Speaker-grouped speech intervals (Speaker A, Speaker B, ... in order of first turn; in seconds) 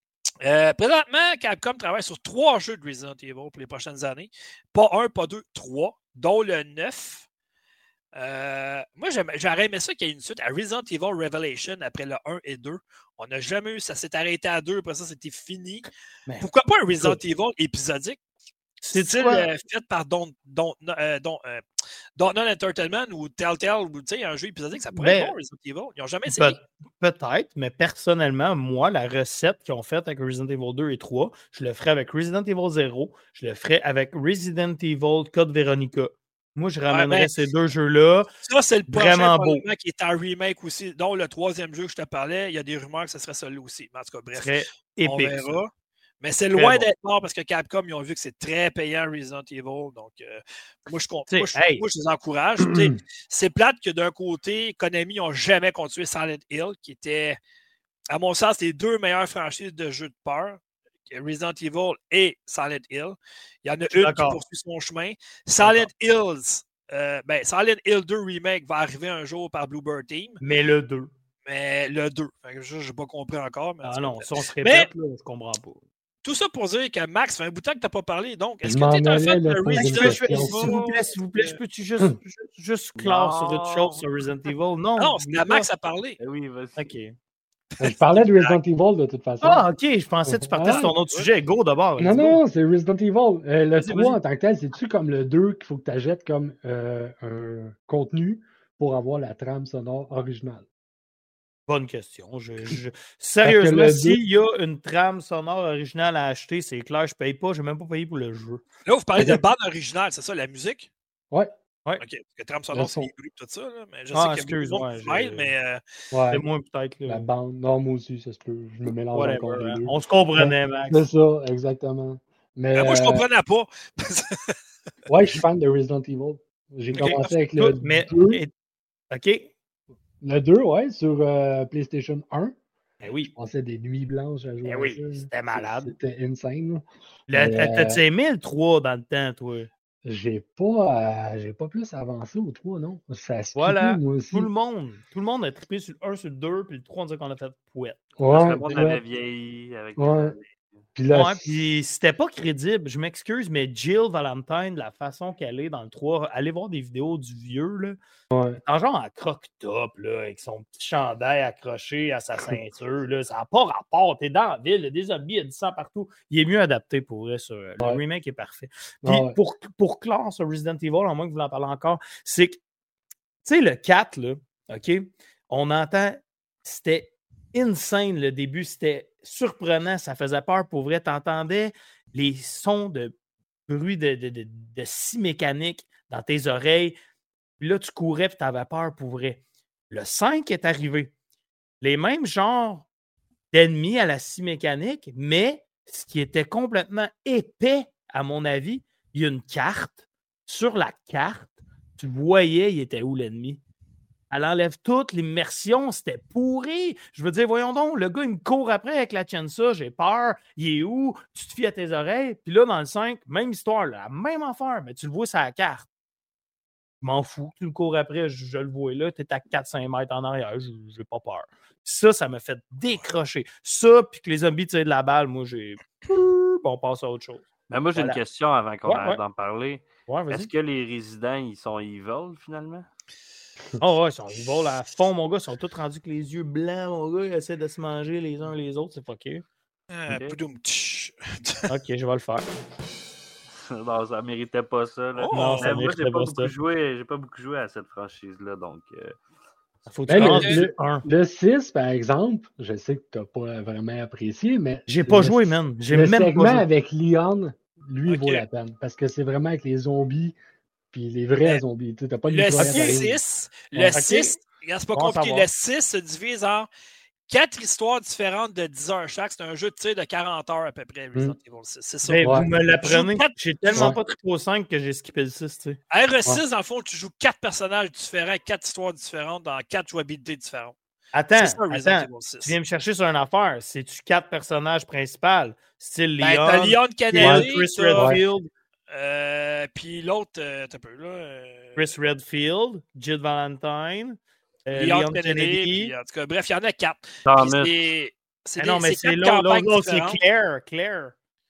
Speaker A: 0.4-7.2, 8.2-15.9, 16.4-18.2, 18.9-21.6, 22.2-26.6, 36.9-37.3, 38.4-45.7, 46.2-57.4, 58.1-60.6, 61.1-70.4, 71.5-74.9, 76.2-81.6, 85.0-86.2, 87.8-88.6, 108.8-110.9, 112.0-115.8, 122.7-124.5, 126.9-127.3, 239.9-241.7, 245.1-245.7, 250.3-250.6, 258.1-258.4, 262.3-266.7, 267.3-273.9, 275.9-280.7, 281.4-282.5, 286.2-288.2, 288.9-291.9, 294.7-300.2
Speaker B: 18.8-19.5, 24.9-25.3, 26.3-38.3, 38.9-39.6, 44.3-45.6, 46.5-46.9, 51.3-51.8, 63.9-64.4, 65.6-65.9, 70.4-71.1, 73.8-75.8, 79.8-85.7, 86.8-87.2, 89.4-92.4, 93.8-94.2, 101.7-108.6, 114.1-115.5, 116.3-117.3, 119.1-121.0, 127.5-128.5, 129.1-129.5, 133.0-133.3, 134.6-135.9, 137.3-139.7, 143.6-148.0, 151.1-158.0, 158.6-172.6, 173.4-183.1, 183.7-186.9, 187.6-191.1, 191.8-192.9, 193.5-203.6, 204.3-215.9, 217.0-228.2, 228.8-229.2, 230.1-230.5, 233.8-239.4, 241.7-242.5, 245.3-246.5, 249.9-251.1, 254.9-256.6, 262.6-263.0, 263.8-264.4, 264.9-265.4, 272.1-275.8, 281.1-288.5, 291.8-295.9, 298.6-301.1
Speaker C: 52.6-52.9, 78.6-80.7, 87.8-89.7, 90.3-90.9, 92.0-100.7, 103.4-104.2, 112.7-113.1, 116.1-116.4, 117.1-123.2, 125.1-128.4, 130.2-132.6, 133.3-138.0, 140.0-144.5, 148.2-149.0, 150.0-150.3, 150.9-151.6, 158.3-158.6, 169.0-169.4, 250.1-260.3, 260.9-263.2, 272.1-272.4, 287.2-288.2
Speaker D: 83.0-84.0, 86.2-86.9, 148.3-150.8, 227.7-232.9, 240.1-240.4, 243.5-249.2, 297.2-297.8